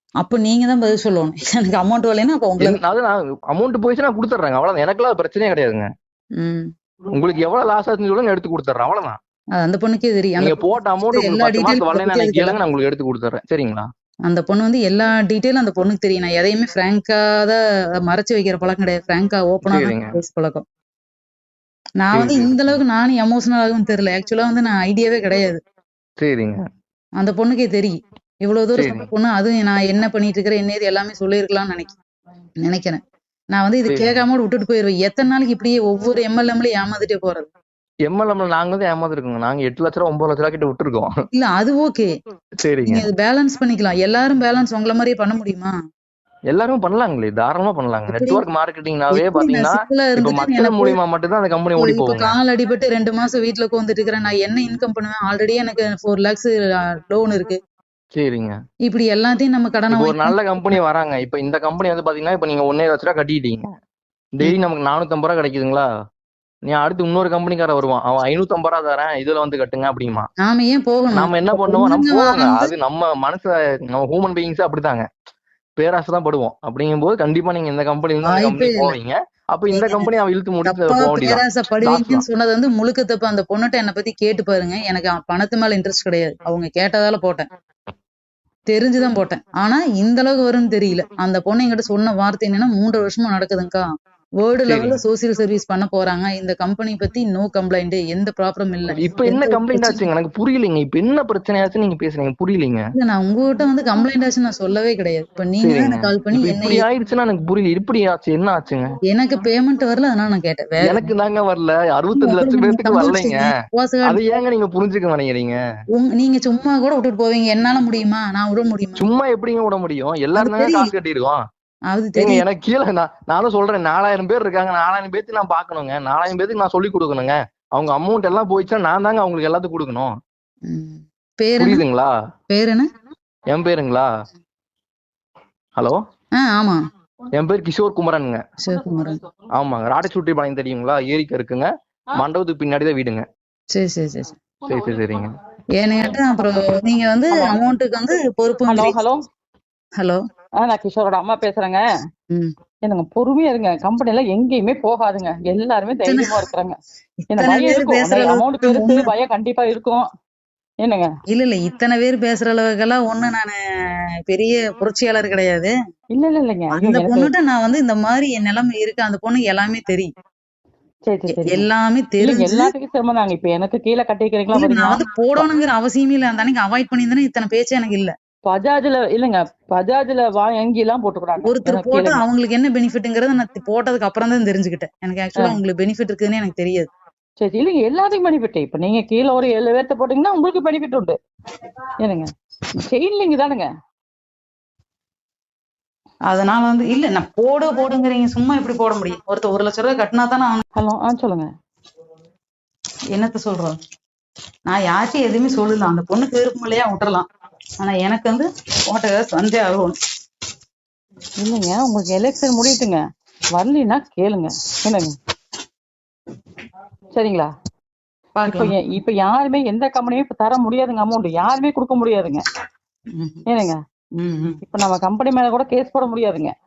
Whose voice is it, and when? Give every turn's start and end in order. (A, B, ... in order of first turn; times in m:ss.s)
0:00.2-0:02.8 A
0:02.6-0:05.9 B
0:06.4-0:06.7 A
0:07.1-0:09.2 B
0:09.5-0:12.6 A
0:10.4-0:13.9 B
0:14.3-0:20.6 A
0:19.7-0:20.2 B
0:22.0-0:25.6 A
0:22.1-0:22.7 B
0:26.2-0:26.6 B
0:27.2-0:32.0 A
0:28.7-0:29.1 B
0:32.6-0:33.0 A
0:33.5-0:37.5 A
0:33.9-0:34.2 B
0:38.0-0:41.1 B
0:41.3-0:42.1 A
0:42.6-0:43.0 B
0:42.8-0:45.7 A
0:46.5-0:52.3 B
0:48.1-0:48.4 A
0:49.1-0:51.0 A
0:51.8-0:57.6 A
0:58.1-0:58.6 B
0:58.9-1:00.4 A
0:59.9-1:03.7 B
1:04.4-1:05.9 B
1:06.7-1:10.3 B
1:10.4-1:12.7 A
1:11.1-1:15.1 B
1:15.8-1:22.2 B
1:18.2-1:18.9 A
1:19.7-1:20.1 A
1:20.6-1:27.5 A
1:28.7-1:33.8 A
1:34.4-1:40.0 A
1:34.7-1:35.0 B
1:38.9-1:42.8 B
1:43.0-1:46.8 A
1:45.6-1:48.9 B
1:49.1-1:51.1 A
1:50.8-1:53.4 B
1:52.1-1:54.4 A
1:54.0-1:55.6 B
1:55.9-1:59.0 A
1:59.0-2:01.4 B
2:00.3-2:00.9 A
2:01.9-2:02.4 A
2:02.2-2:10.1 B
2:10.7-2:11.8 A
2:11.6-2:12.1 B
2:12.5-2:12.9 A
2:13.5-2:14.1 B
2:16.4-2:16.8 A
2:17.3-2:18.4 B
2:18.6-2:19.2 A
2:18.6-2:19.2 C
2:19.6-2:23.2 B
2:23.7-2:24.3 A
2:24.7-2:25.3 B
2:25.8-2:29.0 A
2:27.3-2:27.7 C
2:28.6-2:29.2 C
2:30.6-2:31.8 C
2:32.8-2:36.8 C
2:36.0-2:36.4 A
2:37.2-2:39.1 A
2:37.3-2:40.0 C
2:40.8-2:41.1 C
2:41.3-2:43.6 A
2:44.3-2:45.7 A
2:46.1-2:47.3 C
2:46.7-2:50.1 A
2:51.0-2:51.6 C
2:51.3-2:52.7 A
2:52.2-2:55.4 C
2:54.5-2:58.1 A
2:58.4-3:02.2 C
3:01.4-3:06.9 A
3:07.4-3:11.2 C
3:12.0-3:13.7 C
3:16.3-3:20.6 A
3:20.8-3:21.5 C
3:23.1-3:23.8 A
3:24.7-3:27.2 A
3:27.8-3:30.0 A
3:31.4-3:33.0 C
3:33.5-3:35.1 C
3:37.1-3:37.5 C
3:38.4-3:38.7 A
3:38.4-3:42.4 C
3:43.1-3:43.4 A
3:43.5-3:43.8 C
3:44.2-3:44.6 A
3:44.6-3:46.5 C